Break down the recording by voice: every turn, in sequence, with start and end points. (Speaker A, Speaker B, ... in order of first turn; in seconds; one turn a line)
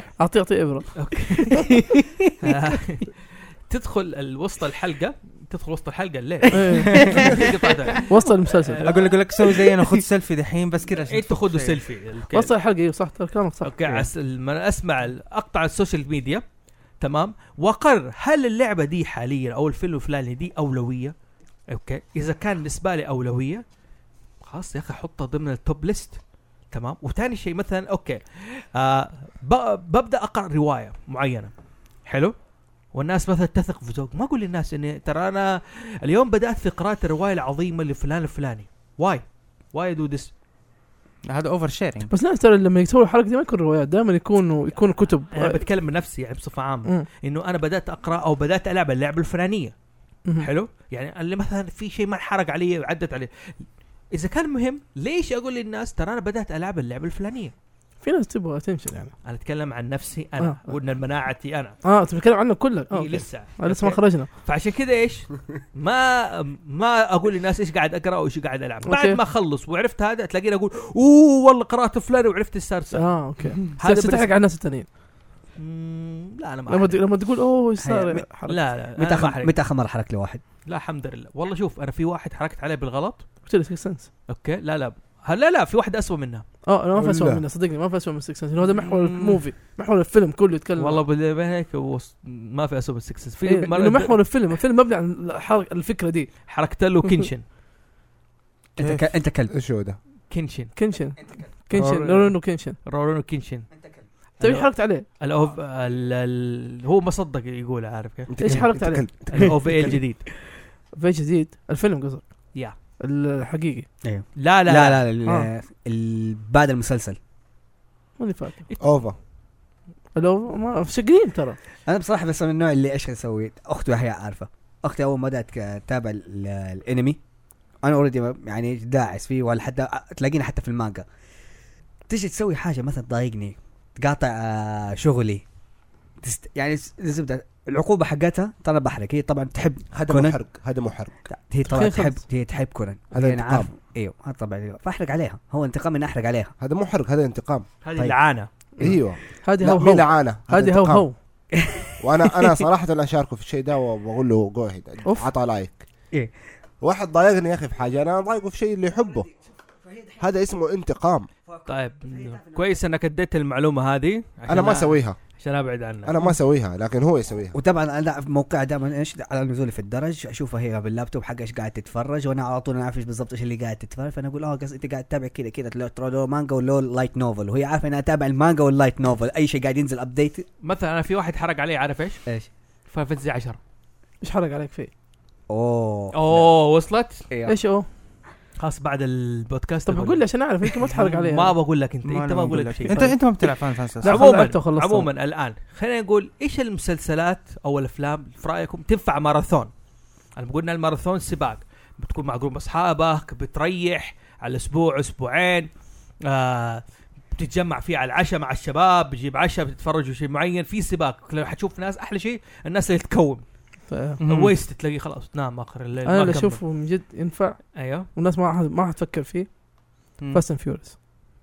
Speaker A: 0.2-0.9
Speaker B: 0.9-1.8
Speaker C: 1.6-2.3
Speaker B: 2.4-9.1
Speaker A: 6.5-7.4
Speaker D: 6.9-7.3
Speaker A: 8.1-8.9
Speaker D: 8.8-11.8
Speaker B: 11.1-12.5
Speaker A: 12.3-13.8
Speaker B: 13.6-16.4
Speaker B: 17.0-21.1
Speaker B: 21.7-23.6
Speaker B: 24.4-31.5
Speaker B: 32.0-32.3
Speaker B: 32.9-40.3
Speaker D: 41.2-42.1
Speaker A: 42.1-45.6
Speaker B: 45.3-49.7
Speaker B: 50.4-57.5
Speaker A: 58.0-59.1
Speaker B: 59.2-61.8
Speaker A: 61.8-64.3
Speaker B: 62.9-74.3
Speaker A: 68.8-69.2
Speaker A: 72.9-74.9
Speaker B: 75.6-77.0
Speaker A: 76.7-78.6
Speaker C: 77.8-78.2
Speaker B: 78.5-79.5
Speaker C: 78.9-80.4
Speaker B: 80.7-83.3
Speaker A: 83.4-84.1
Speaker B: 84.3-86.4
Speaker A: 86.7-91.0
Speaker E: 86.9-87.4
Speaker B: 88.7-89.4
Speaker B: 90.8-94.2
Speaker A: 93.4-96.3
Speaker B: 96.5-97.4
Speaker C: 98.8-99.5
Speaker D: 98.8-99.0
Speaker E: 99.5-100.0
Speaker B: 100.3-100.7
Speaker A: 100.8-102.8
Speaker C: 101.2-101.5
Speaker B: 101.7-103.7
Speaker C: 103.7-104.0
Speaker A: 104.4-105.1
Speaker B: 104.4-108.7
Speaker E: 108.3-110.0
Speaker A: 108.4-109.0
Speaker B: 109.3-110.2
Speaker A: 110.9-112.2
Speaker A: 113.0-113.9
Speaker C: 114.0-117.2
Speaker B: 114.4-115.0
Speaker A: 118.2-118.7
Speaker E: 118.8-119.2
Speaker A: 120.2-121.6
Speaker C: 121.9-127.2
Speaker C: 127.8-131.1
Speaker C: 132.1-135.4
Speaker C: 136.2-140.4
Speaker E: 139.9-141.3
Speaker C: 141.3-146.5
Speaker A: 141.7-142.2
Speaker E: 143.1-143.7
Speaker E: 146.6-147.7
Speaker B: 147.8-148.5
Speaker E: 148.8-151.1
Speaker A: 149.4-151.2
Speaker C: 151.5-152.7
Speaker E: 152.0-155.8
Speaker E: 156.8-159.3
Speaker E: 160.2-161.3
Speaker B: 161.7-166.1
Speaker C: 162.0-162.5
Speaker E: 164.5-165.2
Speaker E: 166.0-167.6
Speaker C: 167.5-180.4
Speaker B: 180.6-182.2
Speaker B: 182.9-183.6
Speaker A: 184.2-184.9
Speaker C: 185.5-186.5
Speaker B: 186.1-187.2
Speaker C: 187.3-187.6
Speaker A: 187.5-187.8
Speaker B: 188.6-193.5
Speaker A: 189.9-191.6
Speaker D: 192.0-194.3
Speaker A: 194.0-195.1
Speaker B: 194.0-199.7
Speaker B: 200.4-205.7
Speaker B: 206.2-206.8
Speaker B: 207.3-213.4
Speaker A: 213.9-214.2
Speaker D: 214.2-214.5
Speaker B: 214.2-216.6
Speaker A: 216.0-219.5
Speaker B: 217.8-218.1
Speaker A: 220.3-220.9